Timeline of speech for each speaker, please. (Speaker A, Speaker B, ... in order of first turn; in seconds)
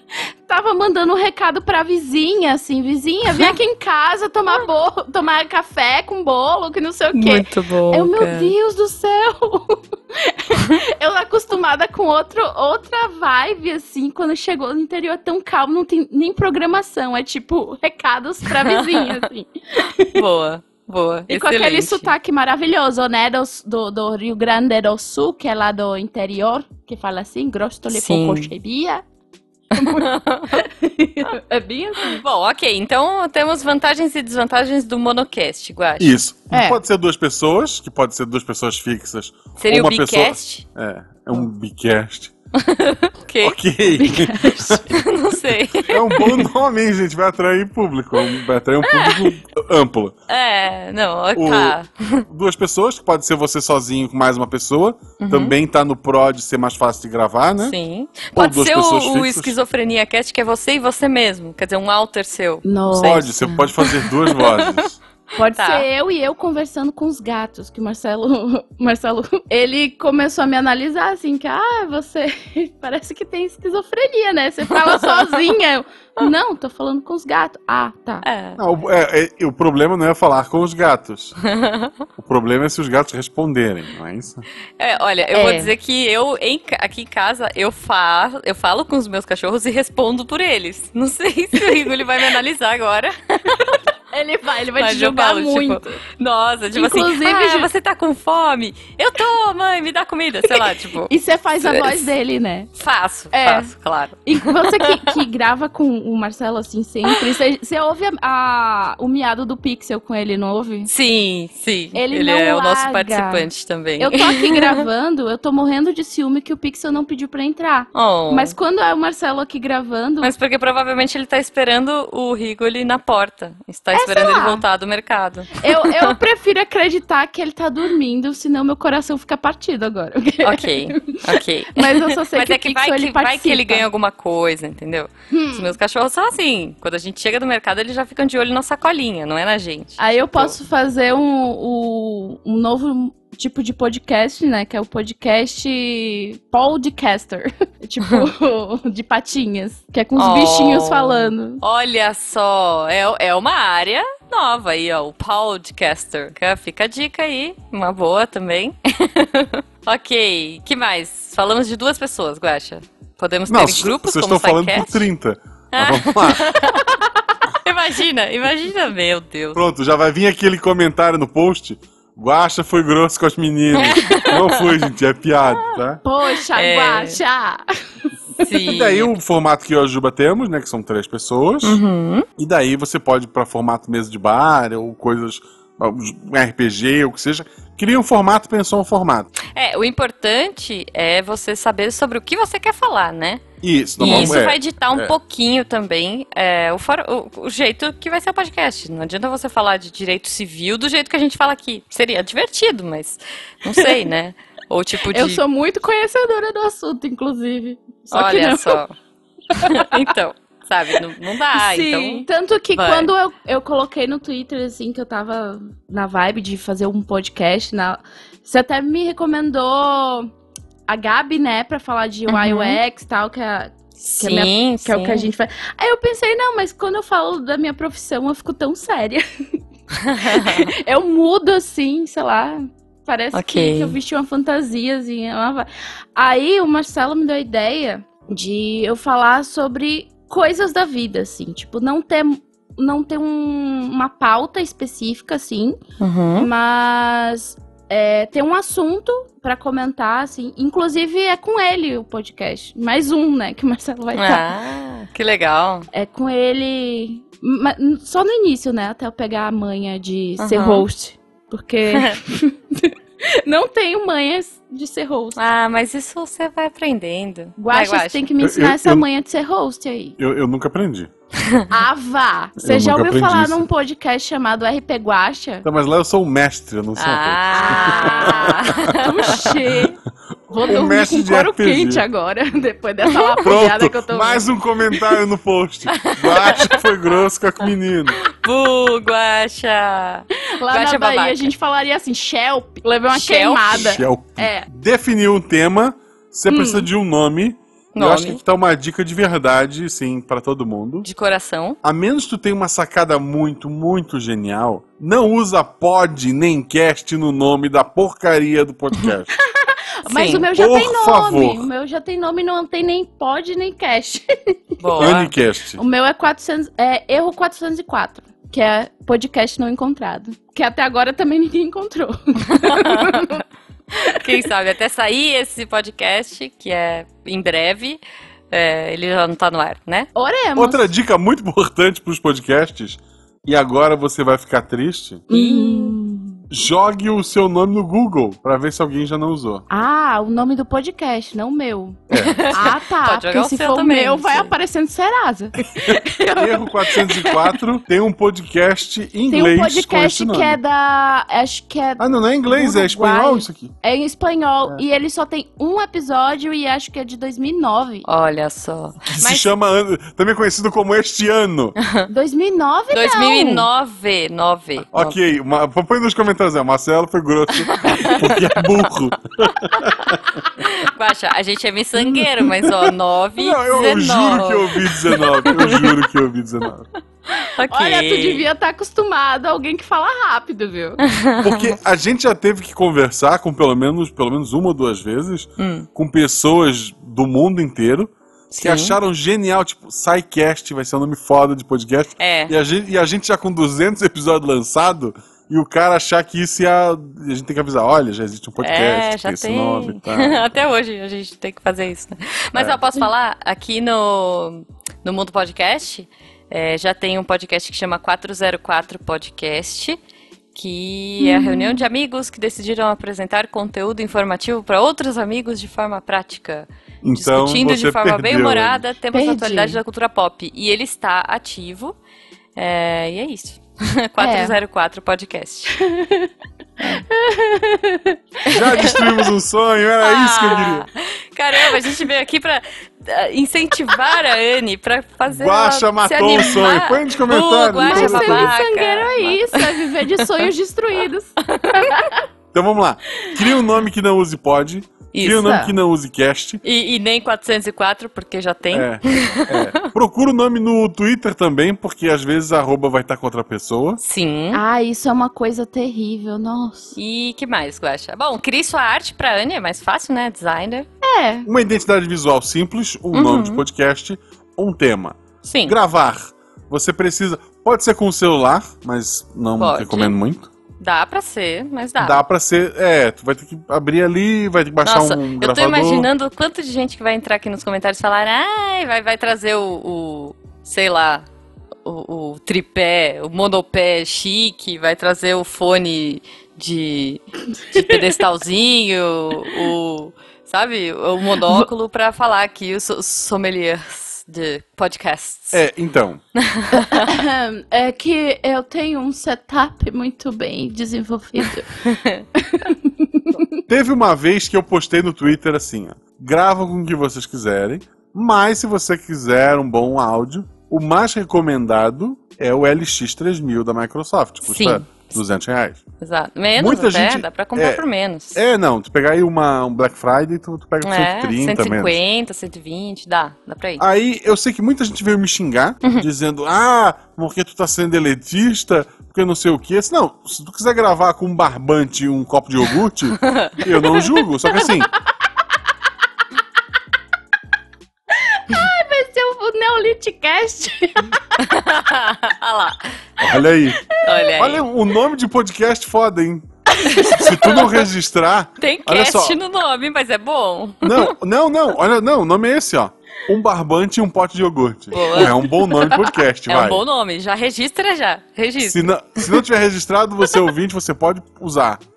Speaker A: 0.5-20.2, 21.3-29.0, 29.7-32.2, 36.5-36.8, 44.0-44.9, 62.6-63.7, 65.4-78.2, 85.3-85.7, 93.6-96.0, 96.8-97.7, 101.1-102.7, 103.3-103.7, 104.3-110.9, 112.0-113.5, 114.0-120.3, 123.9-124.6, 125.6-133.8, 135.3-135.8, 140.0-151.6, 176.0-177.6, 203.7-204.0, 205.1-208.8, 209.5-210.0, 211.5-220.3, 220.9-229.2, 230.2-245.8, 246.4-254.5, 255.9-265.4, 267.6-270.2, 271.7-275.7, 277.5-280.0, 280.5-285.0, 290.5-294.7, 296.5-296.9, 309.6-314.2, 315.8-323.4, 324.0-324.4, 330.2-330.9, 335.3-336.4, 339.7-347.6, 349.3-358.1, 362.1-363.7, 377.7-381.0, 411.2-411.8, 419.1-419.8, 424.2-424.6, 425.8-426.3, 427.1-429.1, 437.8-442.2, 445.3-445.7, 454.5-457.0, 461.0-461.5, 491.4-491.7, 496.7-501.7, 502.4-503.4, 538.3-541.4, 555.0-556.0
Speaker B: 7.1-8.5, 18.5-19.2, 20.1-22.1, 27.9-28.5, 29.8-30.6, 32.0-36.2, 39.6-40.6, 42.6-43.6, 44.9-46.5, 48.8-49.3, 50.3-52.2, 55.2-55.6, 57.6-65.9, 74.9-75.3, 78.2-78.6, 81.4-82.0, 84.8-93.8, 94.8-102.1, 102.8-105.2, 110.9-114.8, 117.9-118.5, 120.2-126.2, 130.4-140.6, 150.2-165.1, 165.7-166.9, 167.6-169.6, 173.7-174.8, 176.5-177.2, 178.4-179.1, 181.6-182.3, 189.5-193.4, 194.0-205.4, 208.1-208.9, 209.6-213.1, 222.3-222.8, 224.0-225.3, 230.0-230.7, 233.3-234.0, 246.0-246.5, 254.2-255.9, 260.4-260.9, 261.9-262.2, 265.4-268.3, 271.4-271.7, 277.0-279.5, 285.9-286.8, 288.3-291.5, 293.1-293.9, 297.9-298.4, 301.0-301.8, 310.1-310.5, 314.8-315.3, 322.5-323.4, 324.1-328.0, 328.5-330.1, 335.3-335.9, 342.1-344.5, 358.1-359.5, 361.8-362.1, 362.9-365.2, 367.5-368.9, 369.5-376.0, 377.3-378.5, 381.0-381.7, 385.6-385.9, 388.5-389.0, 392.2-392.5, 398.6-410.0, 410.6-422.0, 422.6-425.8, 430.0-440.3, 441.5-441.9, 445.1-445.6, 446.6-449.9, 454.0-454.6, 456.9-460.9, 463.1-463.6, 465.4-465.8, 469.6-470.2, 470.8-472.2, 474.9-481.2, 481.9-495.6, 496.4-497.1, 501.8-502.3, 514.5-515.2, 516.0-518.4, 520.8-523.8, 533.2-533.6, 541.4-543.0, 544.0-544.6, 546.9-547.9, 548.6-551.1, 554.9-555.4, 556.5-559.4
Speaker C: 36.0-42.3, 43.4-45.0, 45.9-50.1, 51.4-57.8, 58.3-59.5, 62.9-65.0, 78.6-81.3, 82.2-84.5, 163.5-166.5, 169.6-176.0, 178.7-181.8, 182.4-189.3, 193.6-195.1, 268.4-269.1, 270.2-271.1, 272.6-273.6, 275.6-279.6, 280.6-282.1, 283.4-288.2, 293.7-301.1, 301.8-309.3, 310.5-311.7, 315.0-315.8, 330.6-335.2, 336.5-339.7, 342.1-342.4, 345.8-350.6, 352.0-353.7, 359.1-361.8, 364.9-370.4, 372.0-376.9, 381.4-400.4, 417.0-418.8, 428.5-430.9, 435.3-438.5, 442.5-446.6, 448.7-454.0, 461.5-470.5, 472.0-476.1, 495.5-496.2, 503.7-515.8, 516.6-517.8, 518.4-522.0, 523.8-534.9, 543.2-543.9, 544.4-549.4, 550.8-556.8, 558.6-561.8